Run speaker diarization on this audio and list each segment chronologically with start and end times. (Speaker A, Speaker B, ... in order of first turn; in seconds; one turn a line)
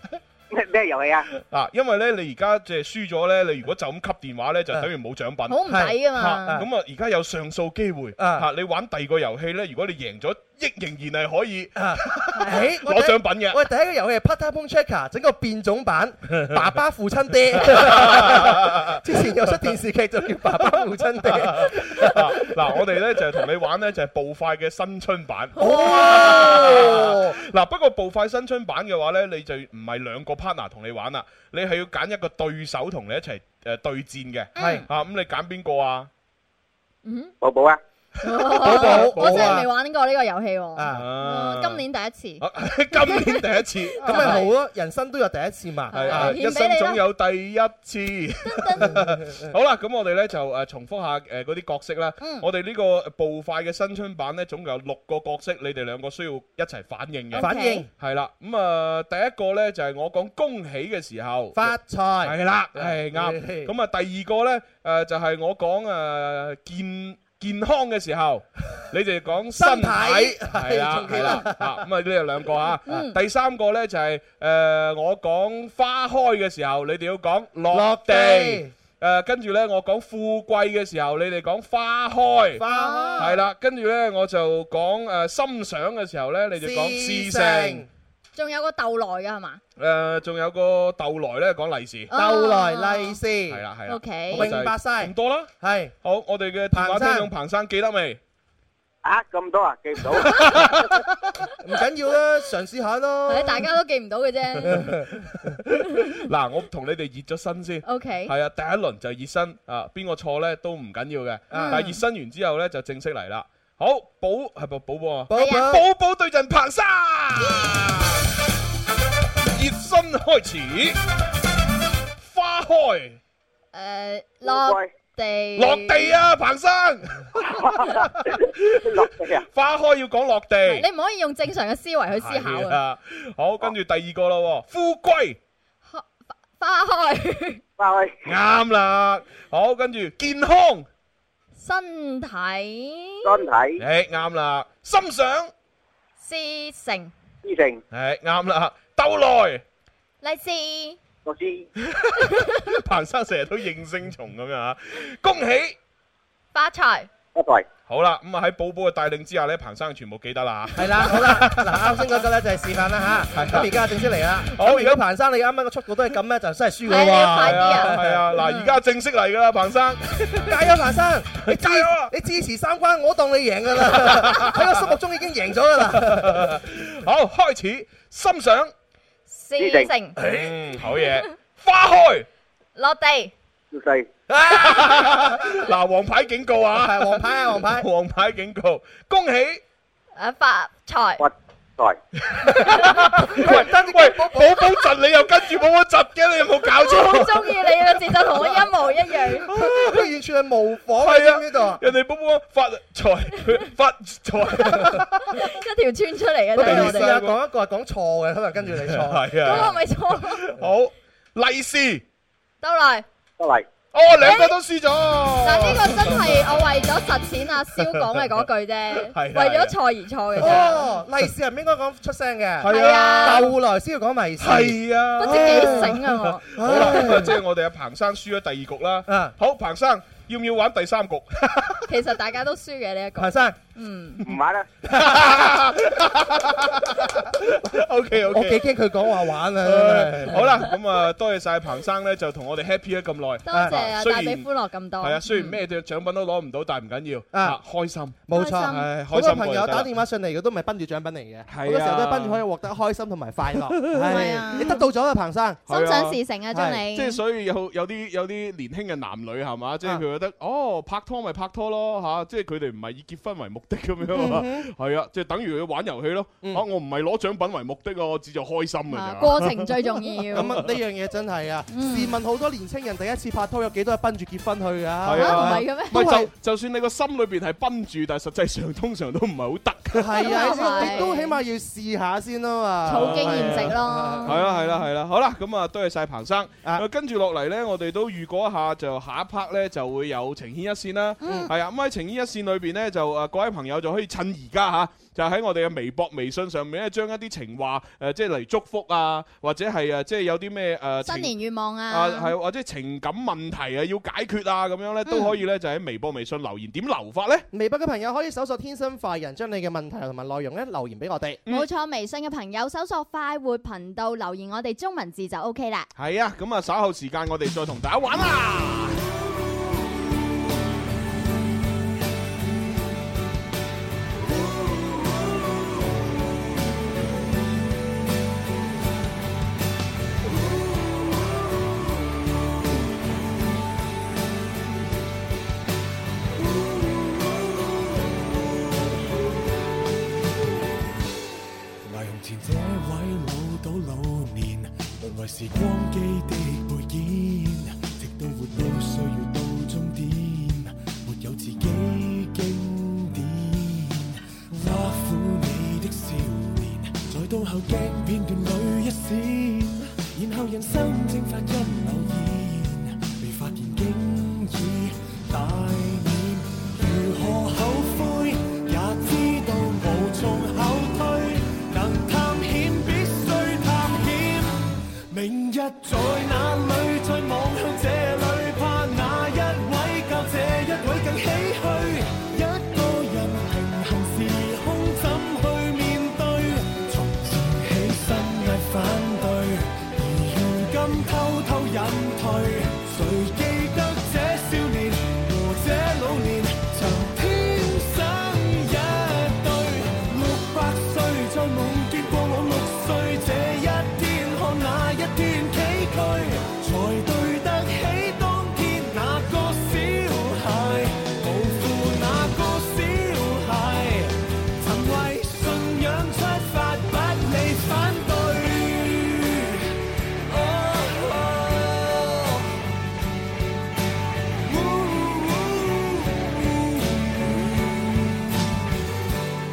Speaker A: 0.5-1.2
Speaker B: 1.3-13.6
Speaker C: 5.5-6.6
Speaker D: 5.7-6.7
Speaker D: 8.2-8.4
Speaker D: 11.8-22.5
Speaker C: 12.3-12.7
Speaker B: 17.6-18.9
Speaker B: 21.2-36.1
Speaker C: 25.6-26.6
Speaker D: 25.6-27.4
Speaker C: 34.5-34.9
Speaker D: 34.5-34.9
Speaker C: 37.0-37.3
Speaker A: 37.4-37.8
Speaker C: 38.2-44.5
Speaker B: 38.3-39.7
Speaker D: 38.6-39.7
Speaker D: 40.8-41.1
Speaker B: 40.9-41.8
Speaker B: 42.4-44.4
Speaker D: 44.0-46.4
Speaker C: 45.9-47.0
Speaker B: 45.9-82.7
Speaker C: 48.4-48.9
Speaker D: 48.8-49.4
Speaker C: 52.2-52.5
Speaker C: 57.3-57.8
Speaker D: 57.4-57.9
Speaker D: 61.5-63.7
Speaker D: 69.5-71.8
Speaker C: 72.9-73.2
Speaker D: 77.7-78.7
Speaker D: 82.5-83.4
Speaker C: 82.7-83.4
Speaker B: 83.2-87.8
Speaker D: 86.6-87.9
Speaker C: 88.3-89.6
Speaker B: 89.8-92.1
Speaker C: 92.1-93.2
Speaker D: 92.1-93.6
Speaker B: 93.5-95.5
Speaker C: 93.9-94.5
Speaker D: 94.3-95.9
Speaker B: 96.0-98.2
Speaker D: 96.7-97.3
Speaker A: 99.0-100.4
Speaker B: 100.3-100.9
Speaker D: 101.6-103.7
Speaker C: 103.3-104.9
Speaker B: 104.6-118.2
Speaker D: 104.6-105.5
Speaker C: 107.8-108.3
Speaker D: 111.5-111.9
Speaker C: 111.5-112.0
Speaker D: 115.3-115.8
Speaker C: 115.3-115.7
Speaker B: 119.4-121.0
Speaker B: 122.2-123.2
Speaker C: 123.7-126.1
Speaker A: 124.4-124.9
Speaker B: 125.5-130.8
Speaker A: 127.4-128.3
Speaker A: 128.8-129.4
Speaker C: 130.6-132.8
Speaker B: 132.1-135.4
Speaker C: 135.8-137.6
Speaker A: 137.8-138.2
Speaker B: 138.2-140.9
Speaker C: 141.6-143.4
Speaker A: 143.2-143.8
Speaker B: 143.8-145.5
Speaker C: 146.2-147.1
Speaker A: 147.4-147.8
Speaker B: 147.9-149.6
Speaker C: 150.2-151.0
Speaker A: 151.2-151.7
Speaker B: 151.8-155.8
Speaker C: 156.5-157.1
Speaker A: 157.3-157.7
Speaker B: 157.9-162.2
Speaker D: 160.8-168.2
Speaker B: 163.3-163.8
Speaker B: 164.5-165.0
Speaker C: 166.8-168.7
Speaker B: 166.9-170.5
Speaker D: 170.4-176.6
Speaker B: 171.4-172.1
Speaker B: 173.9-174.8
Speaker B: 175.9-178.7
Speaker C: 179.3-180.2
Speaker A: 179.6-179.9
Speaker B: 180.2-182.3
Speaker C: 182.8-183.3
Speaker A: 183.7-184.1
Speaker D: 184.3-185.3
Speaker B: 184.4-189.6
Speaker D: 186.7-187.9
Speaker C: 190.2-191.2
Speaker A: 191.2-192.0
Speaker B: 192.2-198.6
Speaker D: 192.8-194.7
Speaker C: 196.8-199.5
Speaker B: 199.4-200.0
Speaker D: 199.5-201.8
Speaker B: 201.0-205.1
Speaker D: 204.7-205.1
Speaker C: 205.3-207.1
Speaker B: 206.6-207.4
Speaker D: 206.6-209.7
Speaker B: 208.7-212.0
Speaker C: 209.4-210.4
Speaker C: 212.6-213.0
Speaker A: 213.4-213.7
Speaker B: 213.9-216.4
Speaker C: 214.2-214.5
Speaker C: 215.4-220.9
Speaker B: 217.8-219.8
Speaker B: 220.3-220.8
Speaker D: 220.4-227.4
Speaker B: 222.6-223.5
Speaker C: 222.7-223.5
Speaker B: 224.4-231.8
Speaker C: 225.2-226.4
Speaker D: 229.1-229.3
Speaker C: 231.9-234.2
Speaker D: 233.2-233.6
Speaker A: 234.3-234.7
Speaker B: 234.9-244.5
Speaker D: 238.3-240.7
Speaker C: 243.4-245.6
Speaker B: 245.0-249.9
Speaker D: 247.3-247.6
Speaker D: 248.3-255.6
Speaker C: 248.3-248.9
Speaker B: 251.5-252.4
Speaker C: 254.0-254.8
Speaker B: 255.7-256.2
Speaker C: 255.7-257.2
Speaker D: 256.5-256.8
Speaker B: 256.9-270.7
Speaker D: 264.1-264.7
Speaker C: 268.9-270.5
Speaker D: 270.3-276.3
Speaker C: 271.7-272.1
Speaker B: 275.0-281.0
Speaker C: 275.1-276.1
Speaker D: 279.9-284.4
Speaker C: 280.2-281.4
Speaker C: 282.9-284.8
Speaker B: 282.9-301.3
Speaker C: 291.2-291.5
Speaker D: 291.2-291.5
Speaker C: 301.0-302.3
Speaker B: 301.9-307.4
Speaker C: 305.1-305.3
Speaker D: 307.5-311.4
Speaker C: 311.5-315.9
Speaker B: 315.9-319.0
Speaker E: 341.8-374.6
Speaker E: 375.1-419.6
Speaker E: 420.3-422.4
Speaker E: 424.4-428.1